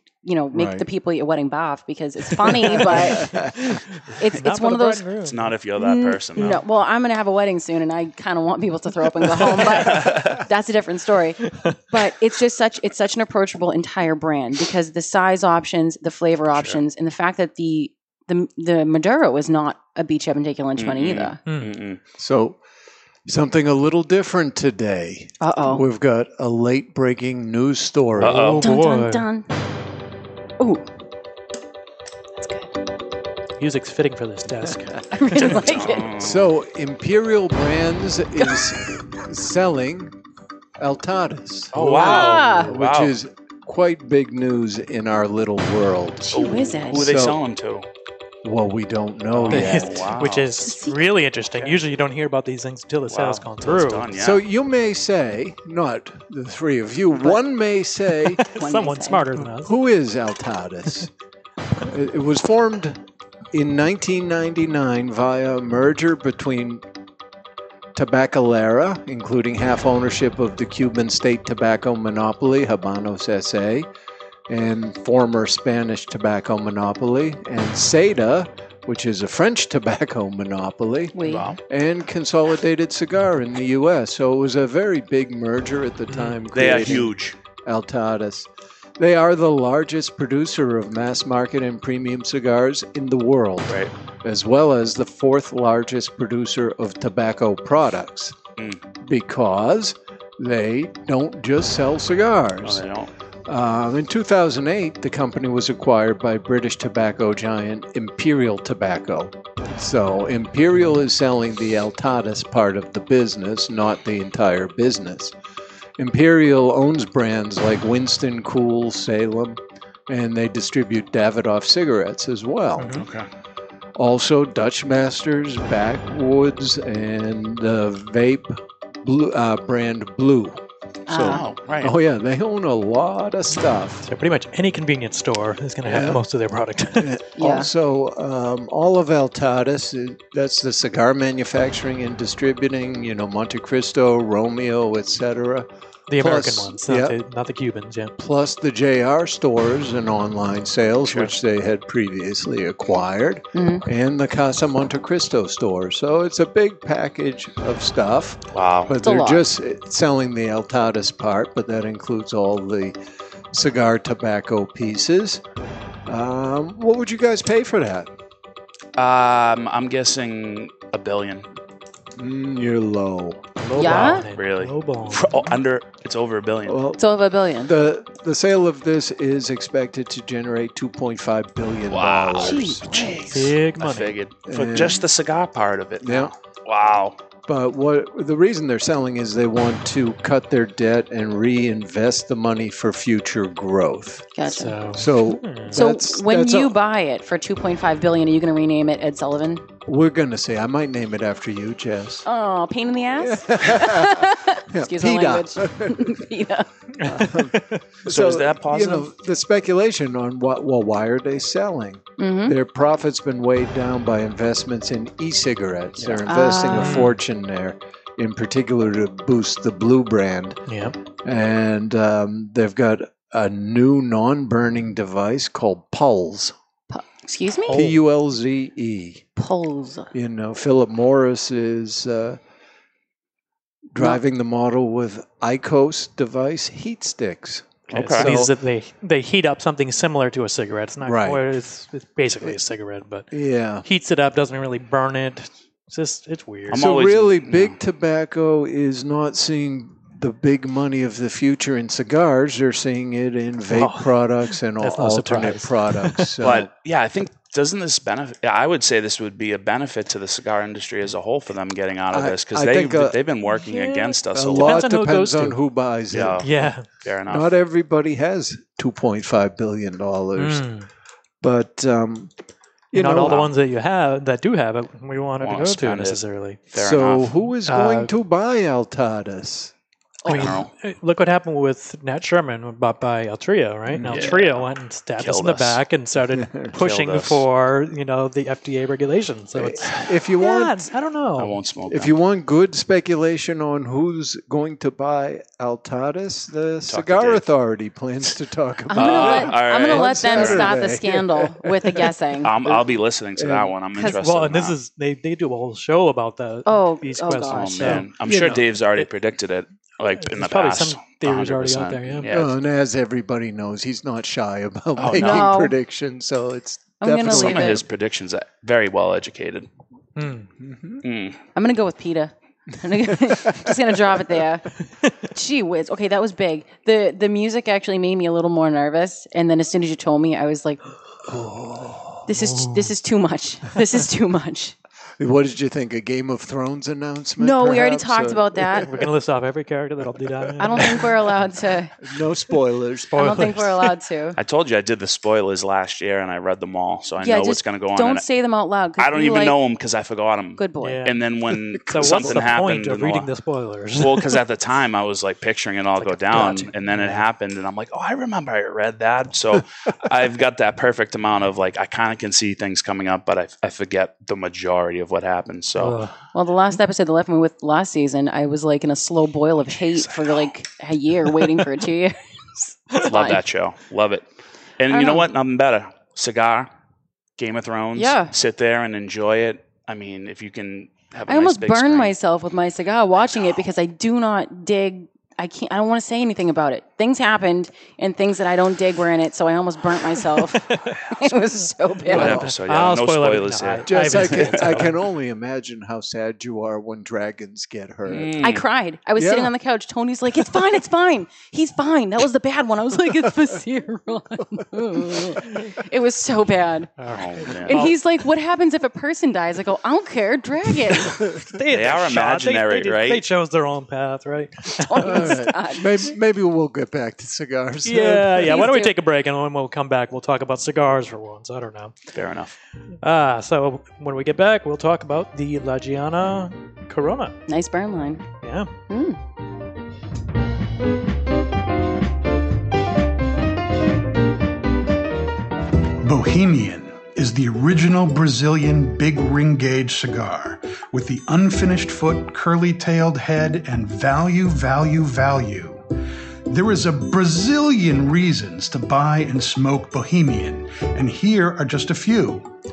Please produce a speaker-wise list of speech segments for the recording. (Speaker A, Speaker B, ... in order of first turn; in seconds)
Speaker A: 0.2-3.4, 4.2-5.0, 5.8-21.4, 25.4-25.8, 28.6-29.5, 30.6-30.9, 32.4-32.7, 35.1-36.1, 41.9-42.7, 46.2-47.0, 50.6-51.0, 58.5-59.2, 81.1-81.5, 131.1-131.4, 137.3-137.7, 153.5-153.8, 159.0-159.4, 173.8-174.2, 177.0-177.7, 182.4-183.3, 194.3-194.7, 195.7-199.6, 202.2-206.7, 212.2-212.5, 216.2-217.0, 226.9-227.9, 229.3-230.1, 298.9-302.5, 306.6-308.0, 315.1-315.7, 317.0-317.8, 321.5-324.7, 325.2-330.8, 332.2-334.7, 337.4-338.9, 340.6-341.9, 343.1-344.4, 347.2-349.6, 350.6-351.1, 366.3-373.4, 374.9-375.2, 377.9-378.3, 381.3-392.4, 398.4-406.9, 407.5-411.3, 414.8-415.8, 418.4-418.9, 427.5-428.2, 428.9-429.2
Speaker B: 0.5-0.9, 2.6-3.5, 22.2-22.6, 23.2-28.5, 36.2-40.1, 40.8-47.4, 48.4-50.1, 54.1-58.4, 59.4-61.1, 61.8-63.0, 63.5-66.8, 67.9-73.9, 74.5-98.3, 99.0-102.8, 103.5-115.3, 116.0-122.9, 124.0-134.1, 135.8-136.2, 137.0-147.2, 148.2-162.9, 163.5-165.4, 166.1-168.1, 172.2-173.5, 176.7-177.0, 177.6-182.8, 184.5-185.0, 186.0-186.3, 187.4-194.3, 194.9-196.8, 199.8-202.2, 203.2-206.2, 207.0-220.6, 221.2-226.5, 227.7-229.3, 230.1-232.4, 233.9-238.5, 241.0-241.4, 243.3-243.8, 246.7-256.7, 262.1-263.2, 264.3-266.5, 267.3-270.7, 271.4-272.3, 272.9-273.5, 276.7-279.7, 283.9-284.3, 286.3-286.7, 289.6-290.9, 291.9-302.1, 303.4-303.7, 308.2-308.7, 312.3-317.8, 320.6-321.0, 331.3-332.2, 335.2-339.1, 342.0-343.6, 351.9-352.4, 392.1-392.5, 393.9-398.4, 399.1-399.5, 415.0-418.6
Speaker C: 2.8-5.5, 6.4-6.6, 11.5-11.8, 21.5-21.7, 28.2-29.2, 33.6-35.4, 49.5-54.1, 58.3-59.7, 86.1-86.4, 122.8-123.0, 134.1-137.1, 146.1-148.1, 173.6-175.5, 183.2-184.2, 194.4-195.8, 207.0-207.8, 216.7-217.2, 220.7-220.9, 227.7-228.0, 237.9-243.3, 243.8-246.9, 253.7-256.3, 263.6-265.6, 266.4-267.0, 270.4-270.9, 272.9-276.6, 277.7-278.1, 280.2-291.6, 303.9-308.2, 310.1-312.3, 320.1-320.5, 338.8-341.1, 343.1-343.9, 350.8-351.2, 351.9-354.3, 356.0-357.2, 365.8-366.1, 390.6-391.0, 392.2-395.0, 407.0-408.0, 411.4-415.4, 417.8-422.0, 423.0-427.4, 428.4-428.7
Speaker D: 5.2-6.6, 9.9-10.3, 16.5-16.8, 20.8-22.0, 28.2-28.6, 35.4-36.5, 41.7-43.1, 46.3-47.9, 49.3-50.7, 51.5-51.8, 53.1-54.4, 81.2-81.6, 86.5-87.3, 93.7-93.9, 102.6-103.1, 122.9-123.2, 131.2-131.9, 151.0-151.3, 158.5-158.9, 168.9-171.5, 174.3-176.8, 181.9-187.2, 208.0-209.1, 216.0-216.2, 237.9-238.3, 246.7-247.8, 256.4-264.8, 266.1-266.5, 267.0-267.5, 275.4-277.3, 280.2-280.7, 284.1-285.8, 286.7-287.4, 291.4-292.1, 296.9-297.5, 298.9-300.8, 302.4-304.8, 307.5-312.5, 315.0-315.6, 317.2-319.7, 321.0-321.4, 344.4-348.2, 349.0-353.3, 354.0-366.0, 369.9-370.5, 373.0-374.2, 374.8-376.7, 377.4-382.1, 392.1-394.8, 398.1-398.6, 407.1-407.8, 411.7-413.2, 422.1-422.5
Speaker E: 436.0-445.8, 446.5-452.5